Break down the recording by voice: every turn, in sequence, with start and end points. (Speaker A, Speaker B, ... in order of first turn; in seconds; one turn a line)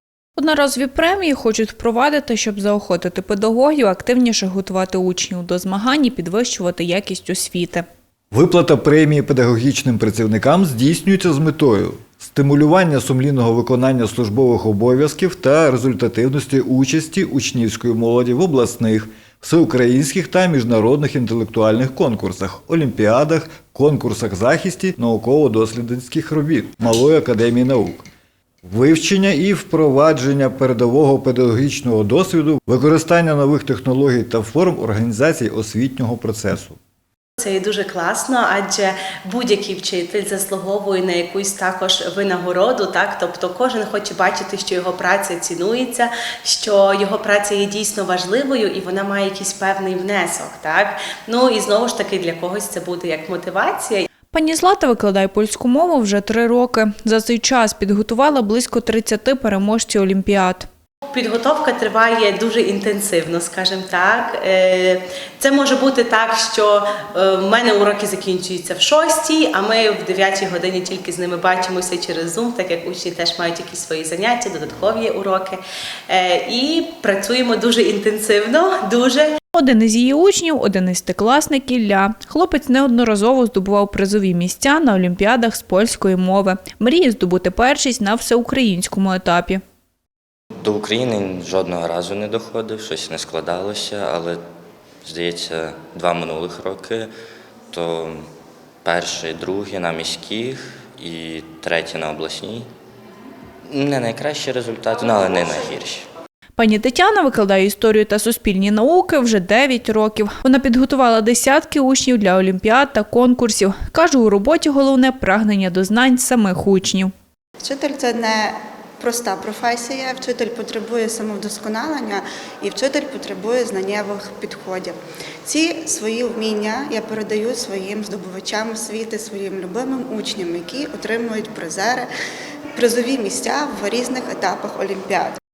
Speaker A: 0.4-7.8
Speaker B: 8.3-28.0
Speaker B: 28.6-36.8
Speaker C: 37.4-54.0
Speaker A: 54.3-60.7
Speaker C: 61.1-79.3
Speaker A: 79.5-89.6
Speaker D: 90.6-94.4
Speaker D: 95.0-97.1
Speaker D: 97.7-98.2
Speaker D: 98.8-102.7
Speaker D: 103.7-106.1
Speaker A: 106.6-117.1
Speaker E: 117.6-132.1
Speaker E: 132.8-135.4